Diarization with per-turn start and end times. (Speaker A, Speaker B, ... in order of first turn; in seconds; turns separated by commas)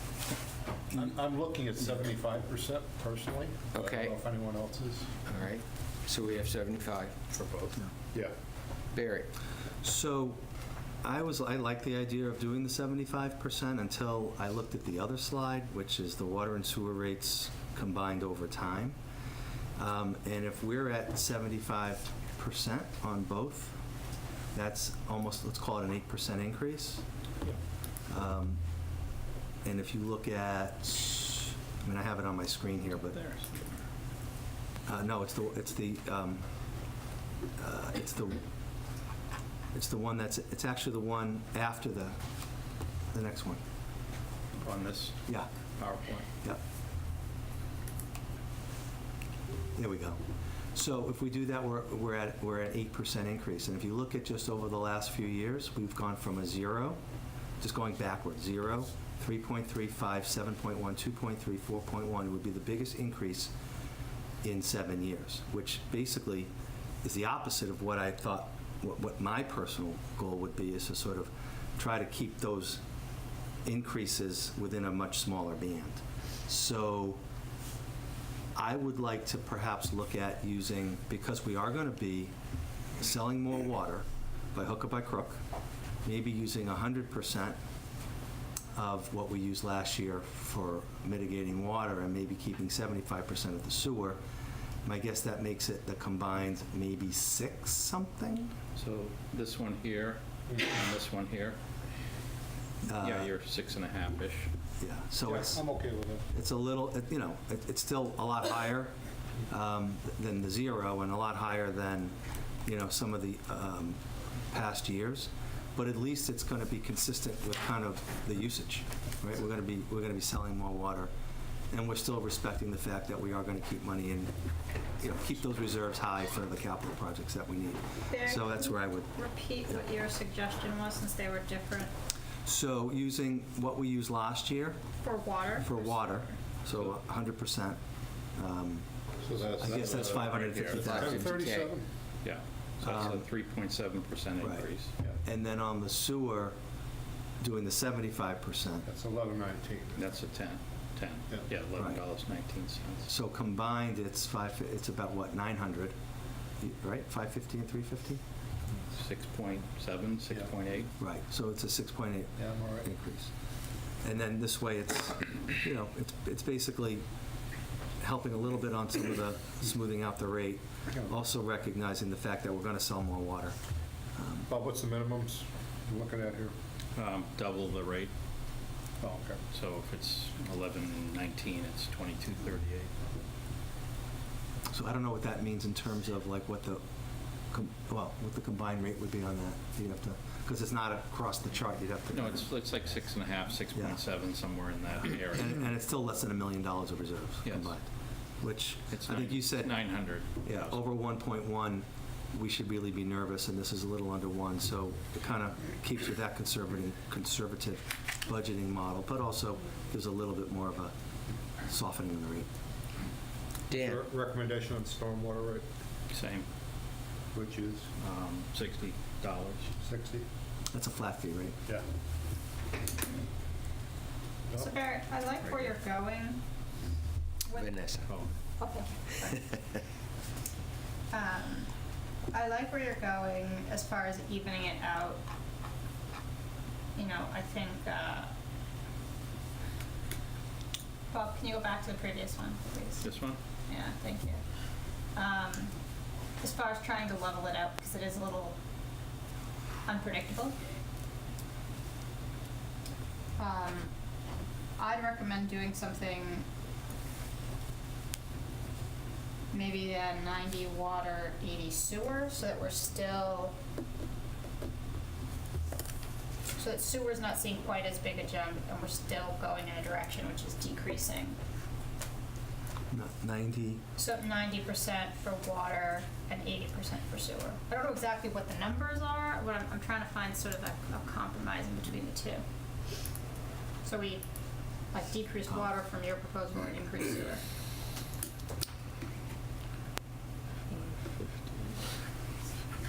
Speaker A: 0.9-5.1, Speaker B: 3.7-4.2, Speaker B: 5.2-7.3, Speaker C: 7.4-7.7, Speaker B: 8.9-9.3, Speaker D: 9.8-10.4, Speaker D: 11.0-19.0, Speaker D: 19.8-23.8, Speaker D: 24.5-27.0, Speaker D: 28.1-28.6, Speaker D: 29.6-33.2, Speaker C: 33.0-33.8, Speaker D: 34.9-36.5, Speaker D: 37.6-38.4, Speaker D: 39.7-42.2, Speaker D: 43.1-43.6, Speaker C: 44.6-46.2, Speaker D: 49.7-50.2, Speaker D: 50.7-57.0, Speaker D: 57.6-63.5, Speaker D: 64.4-66.5, Speaker D: 67.0-72.8, Speaker D: 73.6-77.2, Speaker D: 78.5-82.3, Speaker D: 83.0-85.4, Speaker D: 86.0-87.6, Speaker D: 88.7-94.2, Speaker D: 94.8-98.5, Speaker C: 98.8-101.6, Speaker D: 102.8-103.3, Speaker C: 103.0-104.5, Speaker D: 104.8-105.6, Speaker A: 105.2-106.2, Speaker D: 106.3-108.9, Speaker D: 109.5-114.0, Speaker D: 114.5-121.1, Speaker D: 121.7-124.3, Speaker D: 125.0-129.1, Speaker E: 128.1-131.9, Speaker D: 132.4-134.8, Speaker E: 135.0-136.3, Speaker D: 135.6-137.8, Speaker C: 136.7-137.0, Speaker D: 138.3-138.9, Speaker A: 139.2-141.8, Speaker D: 139.6-141.2, Speaker C: 139.8-141.0, Speaker B: 140.5-141.7, Speaker C: 142.2-144.9, Speaker D: 142.8-143.2, Speaker D: 144.4-144.6, Speaker D: 145.2-146.5, Speaker D: 147.4-148.8, Speaker A: 148.8-150.2, Speaker C: 149.9-153.1, Speaker D: 151.8-152.0, Speaker D: 153.1-155.9, Speaker D: 156.6-158.2, Speaker C: 158.9-160.9, Speaker D: 161.0-163.3, Speaker A: 162.4-162.8, Speaker D: 164.0-167.0, Speaker D: 168.0-173.6, Speaker A: 170.9-171.2, Speaker D: 174.2-174.5, Speaker A: 174.5-176.5, Speaker C: 176.9-178.1, Speaker A: 179.0-179.4, Speaker C: 179.5-182.9, Speaker D: 184.7-186.8, Speaker D: 187.5-192.4, Speaker C: 192.1-195.6, Speaker D: 195.2-197.9, Speaker C: 197.4-197.8, Speaker D: 198.4-210.9, Speaker C: 198.9-200.8, Speaker D: 211.7-212.5, Speaker B: 213.7-214.0, Speaker A: 213.8-215.7, Speaker C: 216.1-216.5, Speaker A: 217.3-217.9, Speaker C: 218.0-219.7, Speaker A: 219.8-220.3, Speaker D: 220.7-221.6, Speaker A: 224.5-224.7, Speaker E: 224.6-226.4, Speaker E: 227.5-227.8, Speaker B: 227.5-228.1, Speaker C: 228.1-228.3, Speaker E: 228.6-229.6, Speaker E: 231.1-231.7, Speaker E: 232.3-235.2, Speaker E: 236.9-238.3, Speaker E: 241.1-243.2, Speaker C: 243.0-243.4, Speaker E: 243.7-244.4, Speaker E: 245.1-245.7, Speaker E: 246.4-248.6, Speaker E: 249.9-250.6, Speaker E: 253.4-253.9, Speaker E: 254.8-256.4, Speaker E: 259.5-263.5, Speaker E: 266.6-271.4, Speaker D: 272.9-273.8, Speaker E: 274.0-282.4, Speaker E: 283.8-284.2, Speaker E: 284.9-287.4, Speaker C: 290.7-291.8